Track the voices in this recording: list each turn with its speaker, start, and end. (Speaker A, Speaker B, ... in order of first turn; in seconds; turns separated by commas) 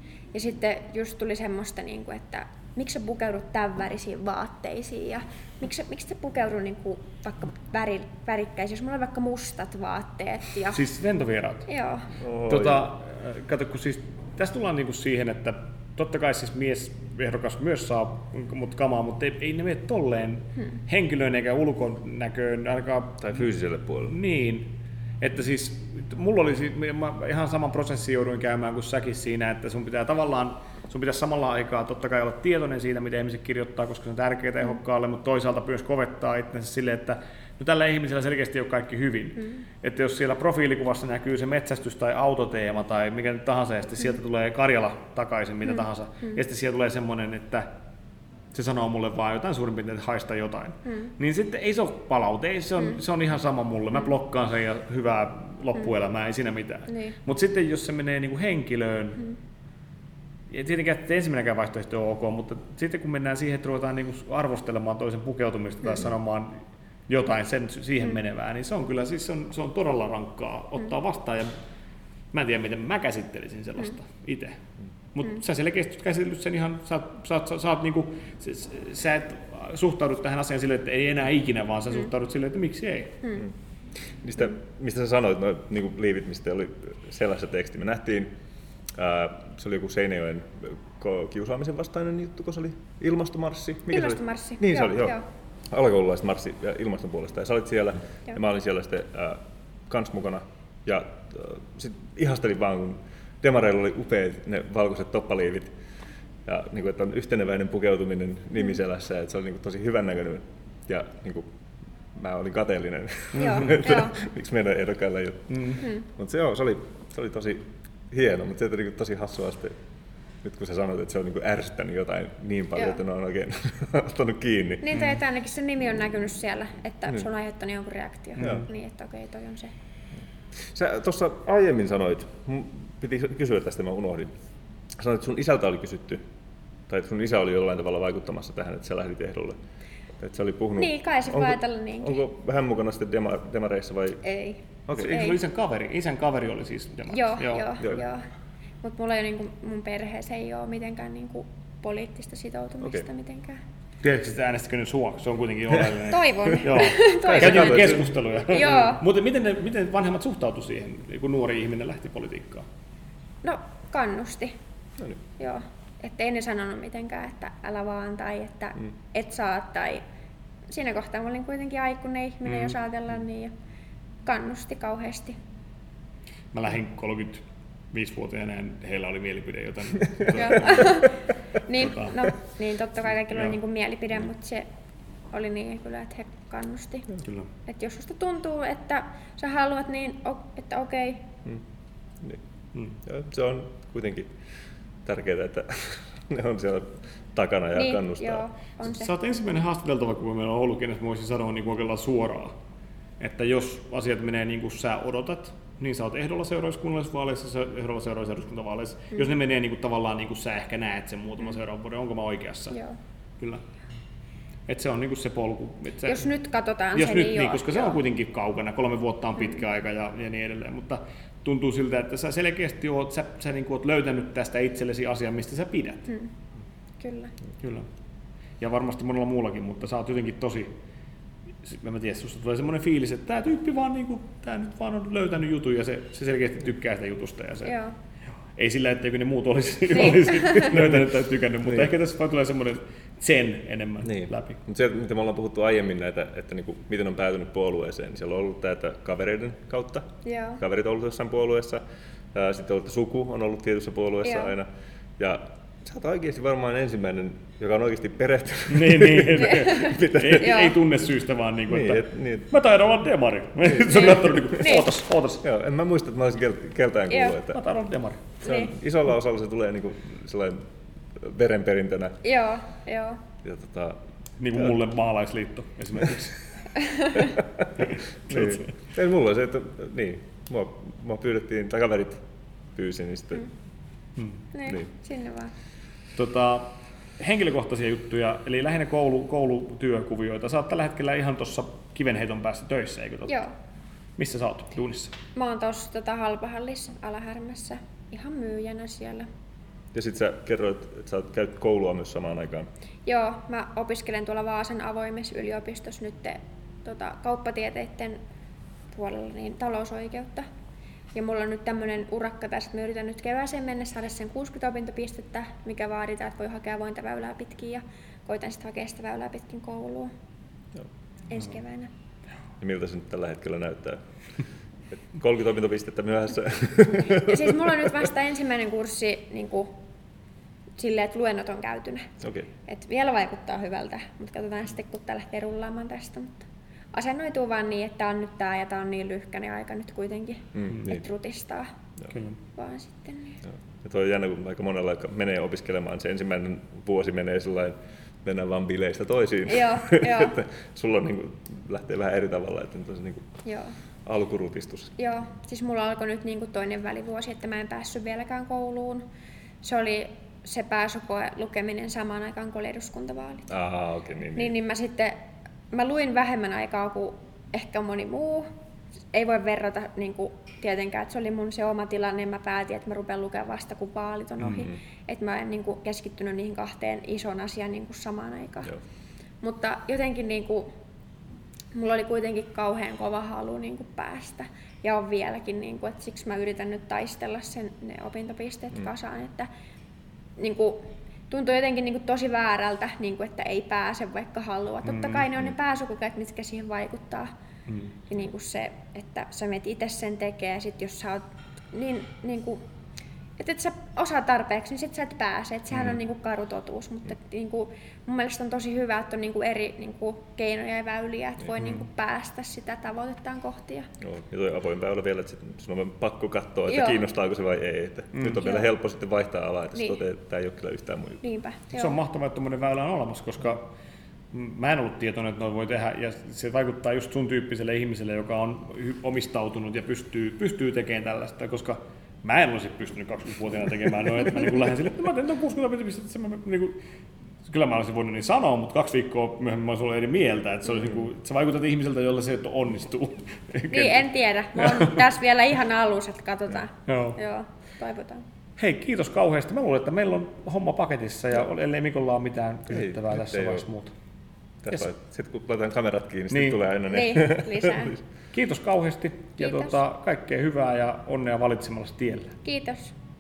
Speaker A: 0.3-10.8, Speaker B: 10.7-11.7, Speaker A: 11.7-12.1, Speaker C: 12.2-12.9, Speaker B: 12.4-23.4, Speaker C: 23.2-24.2, Speaker B: 24.1-47.7, Speaker A: 45.7-46.4, Speaker B: 48.5-59.3, Speaker A: 50.9-51.1, Speaker A: 56.9-57.1, Speaker B: 60.5-71.6, Speaker B: 72.3-74.6, Speaker B: 75.2-83.2, Speaker A: 83.2-83.5, Speaker C: 84.2-88.4, Speaker C: 88.9-105.7, Speaker A: 93.9-95.2, Speaker C: 106.5-111.5, Speaker C: 112.1-119.8, Speaker B: 113.3-113.8, Speaker A: 113.4-114.2, Speaker B: 115.5-115.8, Speaker A: 115.8-116.0, Speaker C: 120.4-125.0, Speaker A: 124.8-129.7, Speaker B: 124.9-125.2, Speaker B: 128.4-128.7, Speaker C: 128.4-128.7, Speaker C: 130.6-134.4, Speaker C: 134.9-136.2, Speaker C: 136.9-139.6, Speaker C: 140.2-144.2, Speaker A: 140.8-142.2, Speaker A: 144.2-145.4, Speaker C: 144.9-145.2, Speaker B: 144.9-147.8, Speaker A: 147.1-148.2, Speaker A: 148.8-153.6, Speaker B: 154.0-162.7, Speaker A: 156.1-159.0, Speaker C: 156.8-158.2, Speaker A: 163.4-164.6, Speaker A: 165.4-170.0, Speaker A: 170.7-173.5, Speaker B: 172.5-172.7, Speaker A: 174.2-175.4, Speaker B: 176.5-181.1, Speaker A: 180.3-184.7, Speaker B: 181.8-182.3, Speaker B: 183.2-183.6, Speaker A: 185.3-191.3, Speaker B: 187.2-187.5, Speaker C: 193.0-194.3, Speaker C: 195.0-198.5, Speaker A: 197.8-199.2, Speaker B: 198.8-202.5, Speaker B: 203.2-212.8, Speaker A: 212.7-213.0, Speaker B: 214.7-216.3, Speaker A: 216.1-218.0, Speaker B: 216.9-226.1, Speaker A: 227.0-227.3, Speaker B: 227.6-227.9, Speaker B: 228.6-230.7, Speaker B: 231.6-237.8, Speaker A: 237.6-237.9, Speaker B: 238.5-244.6, Speaker A: 239.9-240.7, Speaker C: 241.6-241.9, Speaker C: 244.0-260.5, Speaker A: 250.2-250.6, Speaker A: 254.2-254.5, Speaker B: 258.7-265.4, Speaker A: 259.4-260.8, Speaker C: 261.7-262.5, Speaker C: 263.7-264.6, Speaker A: 263.9-264.9, Speaker C: 265.4-267.6, Speaker A: 267.1-267.4, Speaker B: 267.5-268.3, Speaker A: 268.4-268.7, Speaker C: 268.4-272.2, Speaker A: 272.2-273.2, Speaker C: 273.4-274.0, Speaker B: 274.4-276.4, Speaker A: 276.9-277.3, Speaker B: 277.8-278.7, Speaker C: 278.3-283.5, Speaker B: 284.2-284.4, Speaker A: 284.5-285.5, Speaker C: 284.6-284.9, Speaker B: 286.1-293.4, Speaker A: 293.3-293.5, Speaker B: 294.2-295.1, Speaker A: 295.4-299.3, Speaker C: 299.9-302.7, Speaker A: 303.1-308.2, Speaker A: 308.9-310.5, Speaker A: 311.1-320.1, Speaker A: 321.3-321.9, Speaker C: 322.6-324.1, Speaker C: 324.9-327.9, Speaker A: 327.1-329.8, Speaker A: 330.8-332.1, Speaker C: 332.2-332.5, Speaker A: 332.7-341.7, Speaker C: 340.6-341.0, Speaker B: 342.1-342.4, Speaker A: 342.6-343.4, Speaker C: 343.5-353.4, Speaker A: 349.5-350.4, Speaker A: 353.4-353.8, Speaker C: 354.1-355.0, Speaker A: 355.0-359.1, Speaker A: 359.6-363.5, Speaker C: 363.5-364.6, Speaker A: 364.4-365.2, Speaker A: 365.7-368.5, Speaker A: 369.1-378.8, Speaker B: 374.4-374.7, Speaker A: 379.4-380.7, Speaker A: 381.8-389.5, Speaker A: 390.4-397.3, Speaker B: 394.9-395.3, Speaker B: 397.7-398.0, Speaker A: 398.1-402.6, Speaker A: 403.4-413.9, Speaker B: 411.6-411.9, Speaker C: 414.0-421.2, Speaker A: 416.7-417.0, Speaker B: 418.1-418.4, Speaker A: 418.4-418.7, Speaker A: 421.2-422.0, Speaker B: 421.7-423.7, Speaker B: 424.3-436.8, Speaker B: 437.5-445.0, Speaker A: 443.7-448.3, Speaker B: 446.9-447.2, Speaker B: 448.6-453.9, Speaker C: 452.7-453.7, Speaker C: 454.6-458.0, Speaker B: 456.3-456.6, Speaker A: 456.9-458.0, Speaker B: 458.3-462.4, Speaker A: 459.4-459.8, Speaker A: 462.4-462.9